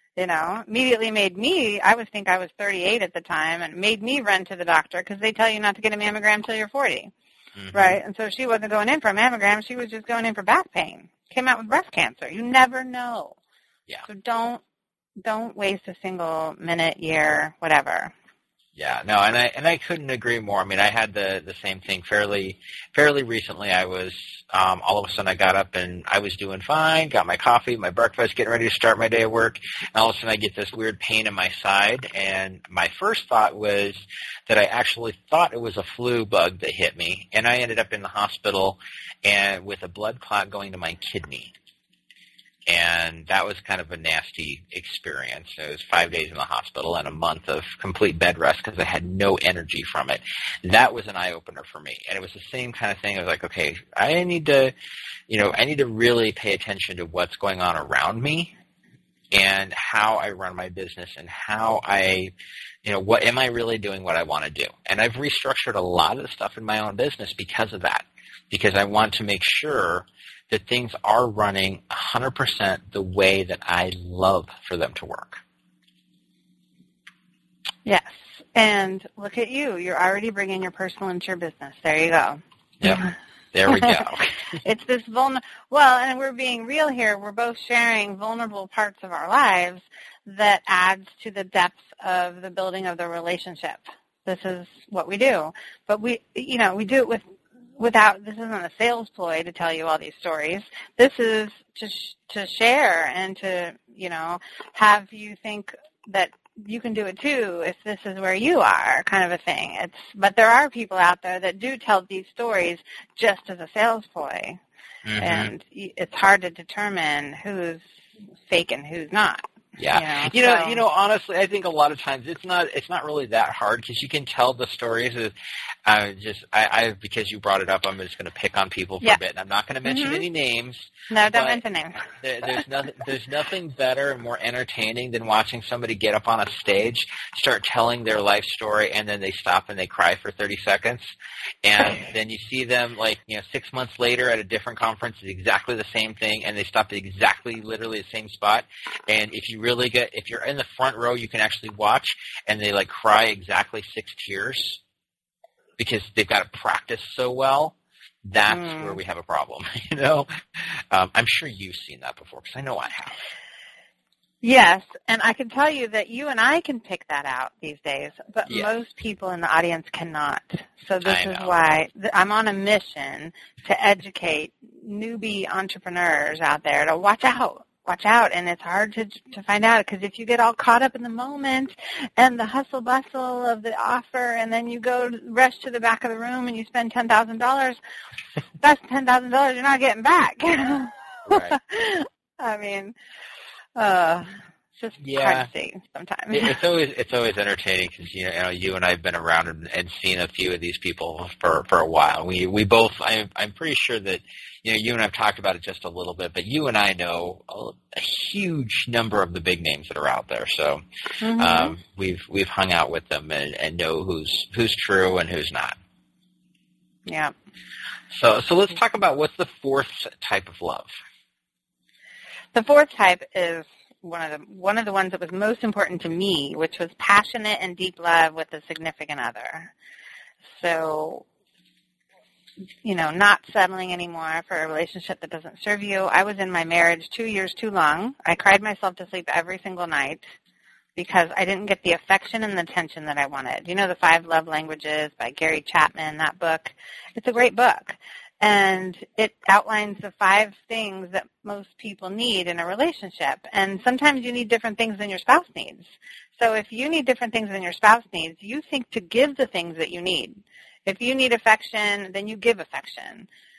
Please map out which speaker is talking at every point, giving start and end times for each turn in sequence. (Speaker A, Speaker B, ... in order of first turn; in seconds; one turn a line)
Speaker A: 0.2-7.1
Speaker B: 7.6-8.0
Speaker A: 7.7-13.4
Speaker A: 14.1-14.6
Speaker A: 15.2-18.1
Speaker B: 18.8-41.5
Speaker B: 42.7-54.7
Speaker B: 55.3-58.5
Speaker B: 59.3-62.3
Speaker B: 62.8-75.4
Speaker A: 77.8-83.2
Speaker B: 82.8-84.3
Speaker A: 83.7-97.2
Speaker A: 97.8-114.6
Speaker B: 115.1-115.5
Speaker A: 115.2-117.9
Speaker A: 118.5-120.8
Speaker B: 119.8-125.3
Speaker B: 125.9-131.6
Speaker A: 129.8-130.2
Speaker A: 131.1-132.0
Speaker B: 132.2-141.1
Speaker B: 141.6-154.8
Speaker B: 155.8-163.2
Speaker A: 158.5-159.0
Speaker A: 164.4-187.8
Speaker B: 171.1-171.5
Speaker A: 188.6-192.9
Speaker B: 191.3-191.6
Speaker A: 193.8-196.6
Speaker B: 195.0-195.5
Speaker B: 196.3-210.8
Speaker A: 211.2-211.8
Speaker B: 211.4-215.8
Speaker A: 217.1-217.3
Speaker B: 218.1-220.9
Speaker A: 222.5-229.7
Speaker A: 230.5-231.2
Speaker A: 232.8-240.3
Speaker A: 241.0-263.3